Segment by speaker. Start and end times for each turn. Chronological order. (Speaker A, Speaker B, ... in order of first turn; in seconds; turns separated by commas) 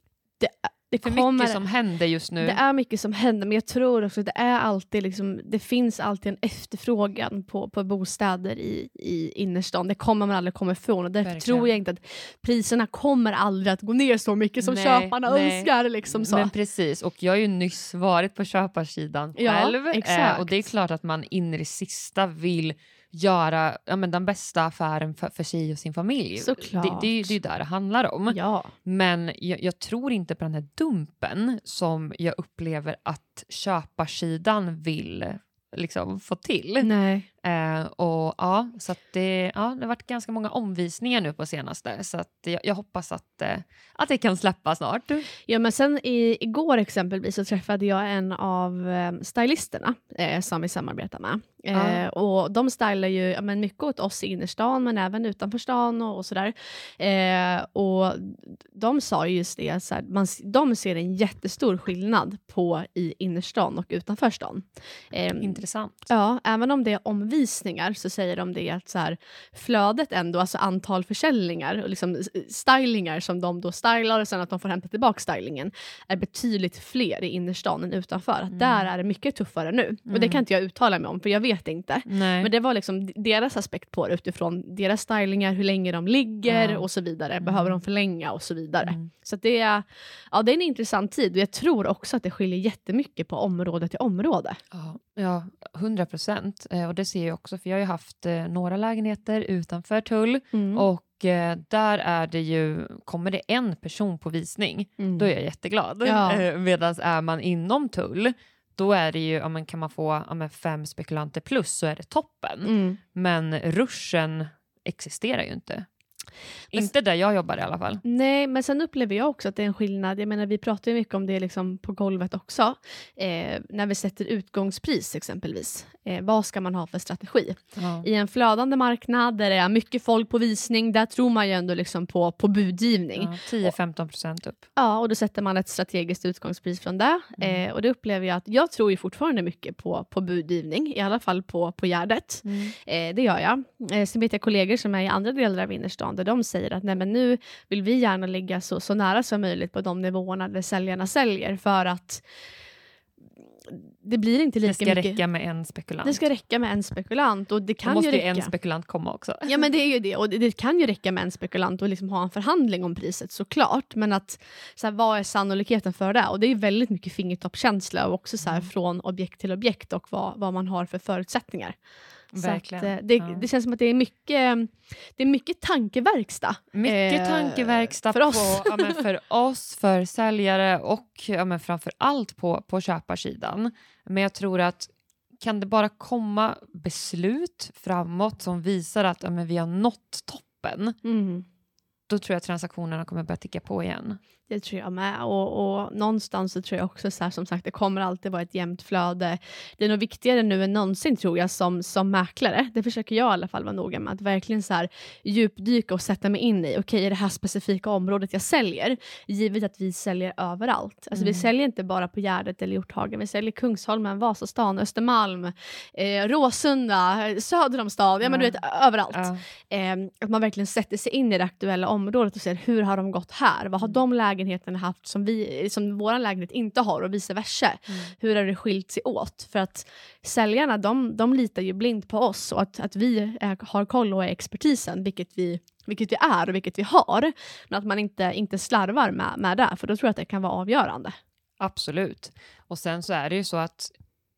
Speaker A: 0.4-1.6, Speaker B: 1.0-2.6, Speaker A: 2.4-16.5, Speaker B: 11.2-11.7, Speaker B: 14.6-36.9, Speaker A: 19.4-20.7, Speaker A: 26.4-27.4, Speaker A: 28.3-28.7, Speaker A: 36.8-37.3, Speaker B: 37.4-45.3, Speaker A: 45.4-94.6, Speaker B: 51.7-52.0, Speaker B: 65.4-66.1, Speaker B: 78.5-78.9, Speaker B: 80.1-80.4, Speaker B: 82.1-82.5, Speaker B: 86.5-86.8, Speaker B: 87.4-87.8, Speaker B: 88.8-89.1, Speaker B: 94.7-115.9, Speaker A: 100.5-100.9, Speaker A: 105.0-105.3, Speaker A: 106.0-106.4, Speaker A: 112.6-113.0, Speaker B: 116.7-118.0, Speaker A: 118.0-133.7, Speaker B: 127.8-128.1, Speaker B: 133.1-134.7, Speaker A: 134.8-152.2, Speaker B: 142.4-142.7, Speaker A: 153.7-155.2, Speaker B: 154.6-156.2, Speaker A: 156.0-158.5, Speaker B: 157.8-159.6, Speaker A: 159.5-171.8, Speaker B: 172.3-173.4, Speaker A: 172.3-179.0, Speaker B: 176.7-191.0, Speaker A: 191.0-191.4, Speaker B: 192.1-194.2, Speaker A: 194.5-241.1, Speaker B: 211.1-211.4, Speaker B: 218.2-218.6, Speaker B: 219.1-219.4, Speaker B: 241.6-243.9